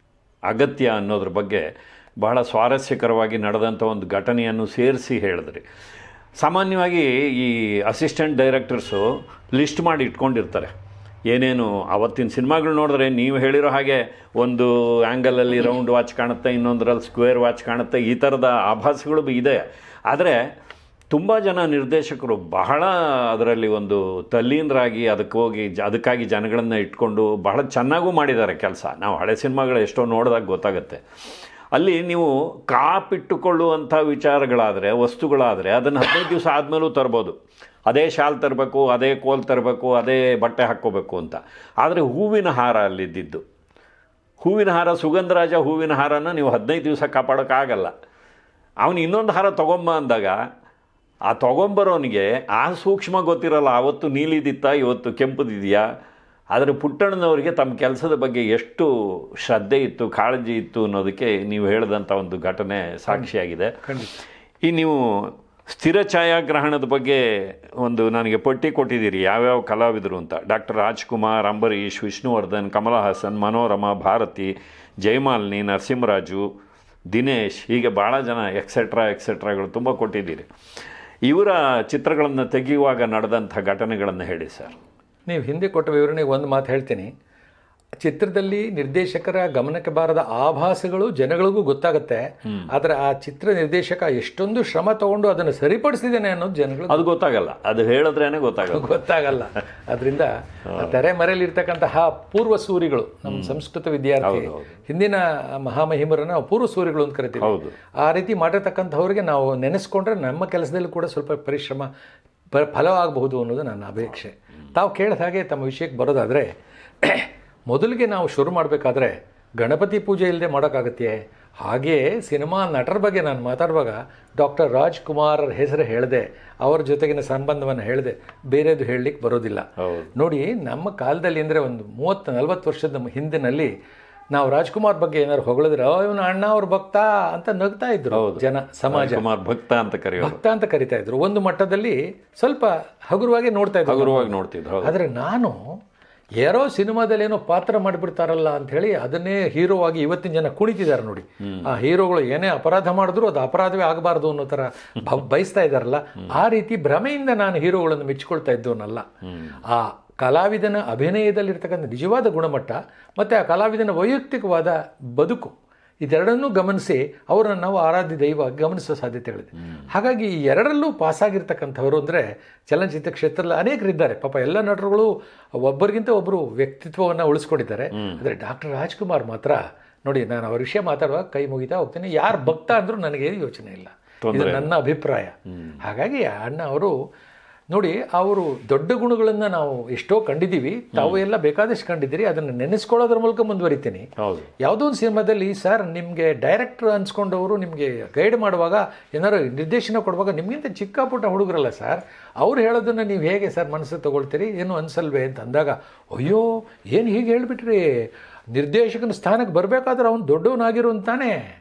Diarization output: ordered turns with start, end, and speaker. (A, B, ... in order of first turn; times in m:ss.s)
0:00.5-0:01.7 A
0:02.2-0:05.6 A
0:06.4-0:10.7 A
0:11.3-0:20.4 A
0:21.1-0:31.0 A
0:31.7-0:37.4 A
0:37.9-0:43.4 A
0:44.4-0:47.9 A
0:48.8-0:50.4 A
0:51.3-0:55.9 A
0:56.5-1:03.8 A
1:03.8-1:04.2 B
1:04.6-1:16.5 A
1:17.1-1:20.5 A
1:21.2-1:24.8 A
1:25.3-1:27.1 B
1:28.0-1:37.0 B
1:36.9-1:38.9 A
1:38.6-1:51.9 B
1:43.3-1:43.5 A
1:44.2-1:44.7 A
1:47.4-1:47.7 A
1:52.5-2:13.7 B
2:14.3-2:19.2 B
2:18.1-2:20.4 A
2:20.2-2:25.8 B
2:23.8-2:24.9 A
2:26.4-2:39.1 B
2:39.6-3:06.9 B
3:04.2-3:04.7 A
3:07.7-3:14.1 B
3:10.9-3:11.2 A
3:14.2-3:14.5 A
3:14.6-3:31.4 B